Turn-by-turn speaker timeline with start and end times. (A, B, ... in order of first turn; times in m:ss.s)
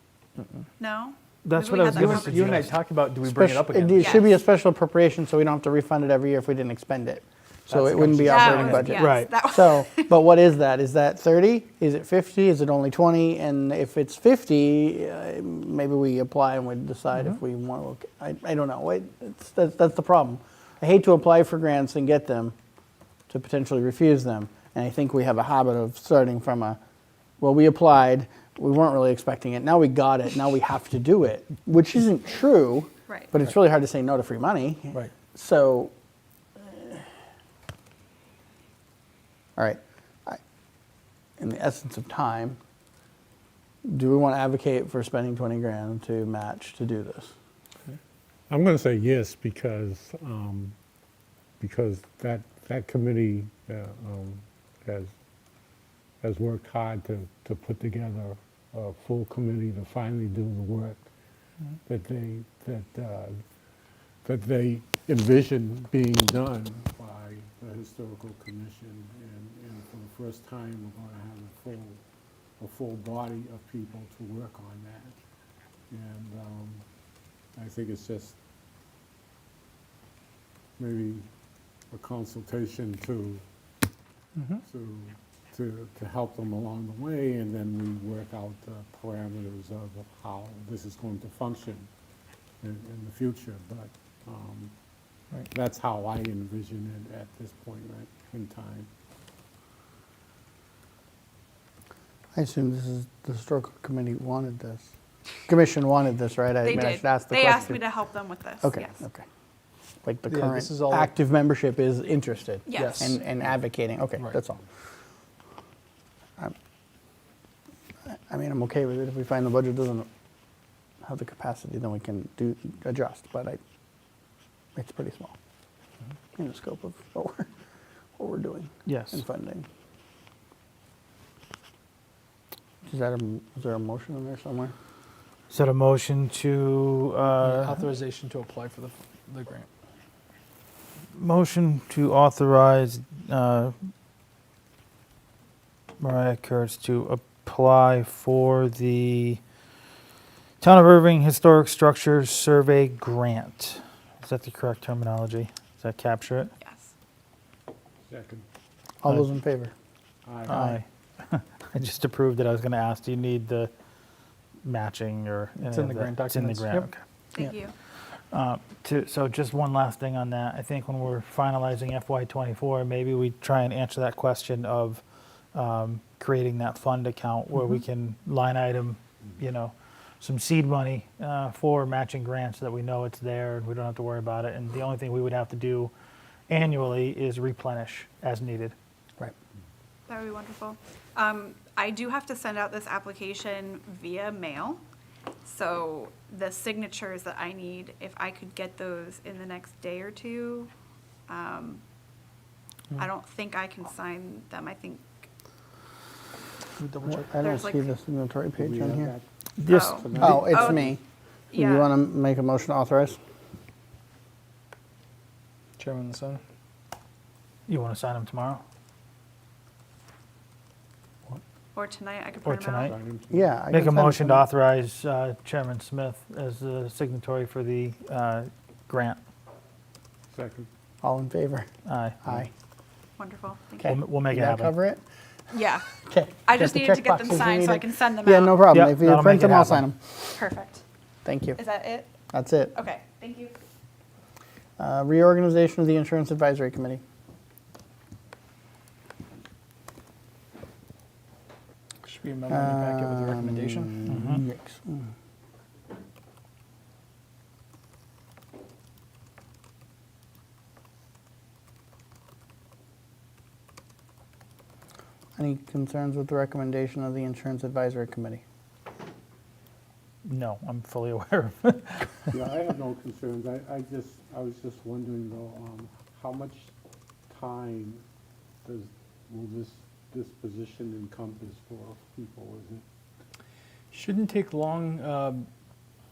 0:00.8-0:02.8 A
0:01.4-0:02.7 B
0:01.8-0:04.3 C
0:03.2-0:22.5 D
0:04.0-0:04.3 A
0:07.7-0:09.0 C
0:08.2-0:10.2 A
0:09.0-0:09.3 B
0:23.3-0:26.8 D
0:27.4-0:35.9 D
0:36.6-0:37.0 D
0:39.6-0:40.4 D
0:41.4-0:42.6 D
0:43.8-0:47.3 D
0:48.5-0:50.8 E
0:51.6-0:55.1 E
0:56.2-1:01.0 E
1:01.9-1:03.4 E
1:04.2-1:12.0 E
1:12.6-1:15.2 E
1:15.9-1:16.8 E
1:17.6-1:18.4 E
1:20.8-1:21.3 E
1:21.9-1:23.4 E
1:24.6-1:31.9 E
1:32.6-1:34.7 E
1:35.5-1:38.9 E
1:42.4-1:44.9 D
1:45.5-1:47.8 D
1:46.6-1:49.0 A
1:48.6-1:49.2 D
1:50.0-1:54.6 D
1:50.3-1:51.1 C
1:52.7-1:53.0 A
1:52.7-1:53.2 C
1:58.1-2:00.1 D
2:01.0-2:03.6 D
2:04.8-2:05.4 D
2:06.4-2:07.5 D
2:08.2-2:09.7 D
2:08.9-2:09.2 B
2:12.9-2:14.7 D
2:15.5-2:17.8 B
2:17.4-2:19.7 C
2:21.2-2:23.7 B
2:26.0-2:29.4 B
2:30.6-2:36.5 B
2:36.6-2:36.9 A
2:38.1-2:38.5 E
2:39.0-2:39.7 D
2:40.2-2:40.6 E
2:40.5-2:40.8 D
2:40.5-2:43.7 B
2:44.6-2:47.0 B
2:45.6-2:46.9 C
2:47.3-2:47.7 A
2:48.3-2:55.0 B
2:55.5-3:05.9 B
3:06.5-3:08.8 B
3:10.1-3:14.8 A
3:15.4-3:20.7 A
3:21.3-3:21.8 A
3:23.0-3:25.3 A
3:26.8-3:27.3 C
3:27.1-3:29.1 D
3:27.4-3:27.9 A
3:28.6-3:31.0 E
3:29.7-3:30.9 A
3:30.2-3:31.0 D
3:31.5-3:31.9 A
3:31.5-3:33.2 D
3:35.8-3:36.4 C
3:37.7-3:38.6 B
3:41.8-3:43.0 A
3:42.4-3:42.9 B
3:42.8-3:43.5 E
3:43.3-3:44.5 D
3:43.7-3:49.2 B
3:50.3-3:50.7 E
3:51.0-3:51.7 D
3:51.9-3:52.2 B
3:53.2-3:53.9 A
3:53.8-3:55.0 D
3:53.8-3:54.7 B
3:55.5-3:55.9 A
3:56.0-4:00.3 D
3:56.5-3:58.6 A
3:58.7-3:59.9 B
4:00.3-4:00.8 A
4:01.2-4:01.6 D
4:01.6-4:02.2 A
4:02.3-4:02.8 D
4:02.7-4:03.5 A
4:04.8-4:07.0 D
4:12.0-4:14.0 C
4:12.5-4:15.1 D
4:14.1-4:14.4 B
4:25.4-4:28.4 D
4:30.2-4:32.3 B
4:32.3-4:36.7 E
4:37.3-4:38.0 E
4:38.6-4:42.8 E
4:43.9-4:45.5 C